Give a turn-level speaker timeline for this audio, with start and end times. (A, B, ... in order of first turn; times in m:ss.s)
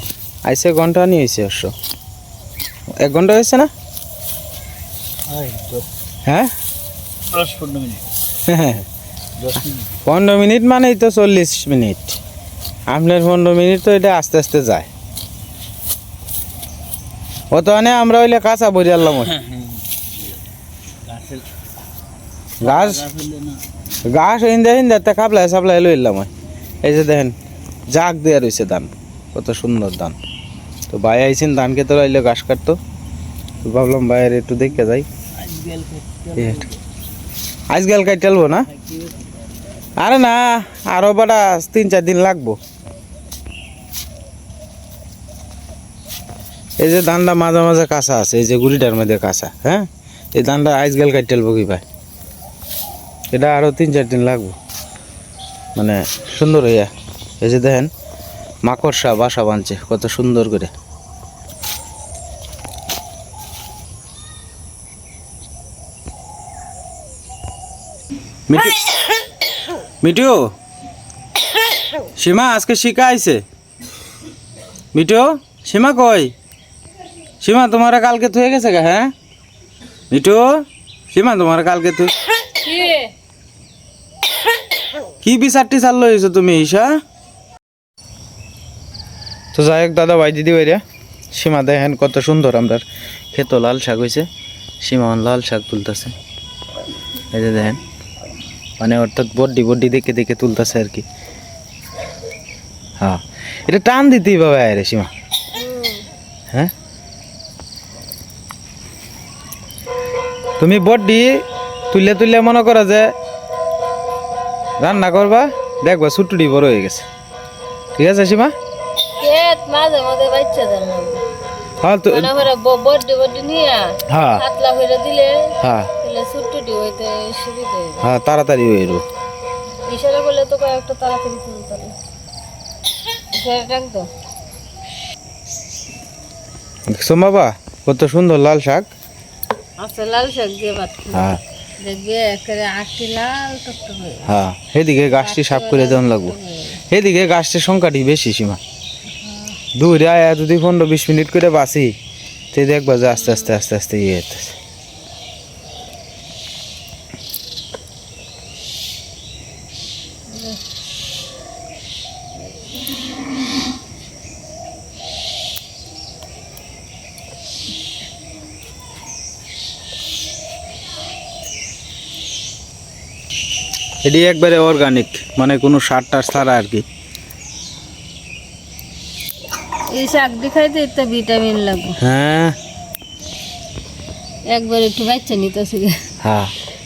0:00.5-0:01.7 A
0:03.0-0:03.7 A
0:05.3-0:05.8 B
0:06.3-0:06.5 A
0:07.4-0:08.0 B
0:08.5-0:08.9 A
0:09.5-0:12.2 A
0:12.9-0:14.9 A
0:17.5-0:19.4 A
0:22.6-0:23.2 A
0:23.1-0:23.5 B
0:24.1-0:26.3 A
0:26.8-0:27.4 A
0:27.9-0:30.2 A
0:30.9-0:32.8 A
0:33.6-0:35.1 A
0:35.4-0:36.2 B
0:36.3-0:36.7 A
0:37.7-0:38.7 A
0:40.0-0:42.6 A
0:46.8-0:51.8 A
0:53.3-0:54.6 A
0:55.8-0:56.9 A
0:57.4-0:57.9 A
0:58.6-1:00.7 A
1:08.5-1:08.9 A
1:10.0-1:10.5 A
1:12.2-1:13.4 A
1:14.9-1:16.3 A
1:17.4-1:19.1 A
1:20.1-1:22.1 A
1:22.6-1:23.1 C
1:25.2-1:26.9 A
1:29.5-1:30.8 A
1:31.3-1:32.8 A
1:33.3-1:34.3 A
1:34.8-1:36.2 A
1:37.3-1:37.8 A
1:38.8-1:41.0 A
1:43.0-1:45.1 A
1:45.6-1:46.0 C
1:50.6-1:53.1 A
1:54.8-1:57.1 A
1:58.0-1:58.5 A
1:59.2-2:01.2 C
2:01.8-2:02.3 A
2:02.1-2:08.0 C
2:04.1-2:04.4 A
2:05.6-2:05.9 A
2:08.0-2:09.0 A
2:09.9-2:12.0 C
2:13.3-2:14.1 C
2:16.9-2:18.9 A
2:19.8-2:21.2 C
2:21.1-2:21.4 A
2:21.8-2:24.4 C
2:24.2-2:26.4 A
2:25.1-2:26.8 C
2:26.9-2:28.6 A
2:29.2-2:29.6 C
2:29.8-2:31.9 A
2:32.5-2:34.6 A
2:33.2-2:33.5 C
2:40.3-2:40.6 C
2:54.0-2:56.8 A
2:59.9-3:02.0 C
3:02.0-3:02.6 A
3:04.5-3:06.0 C
3:06.2-3:06.5 A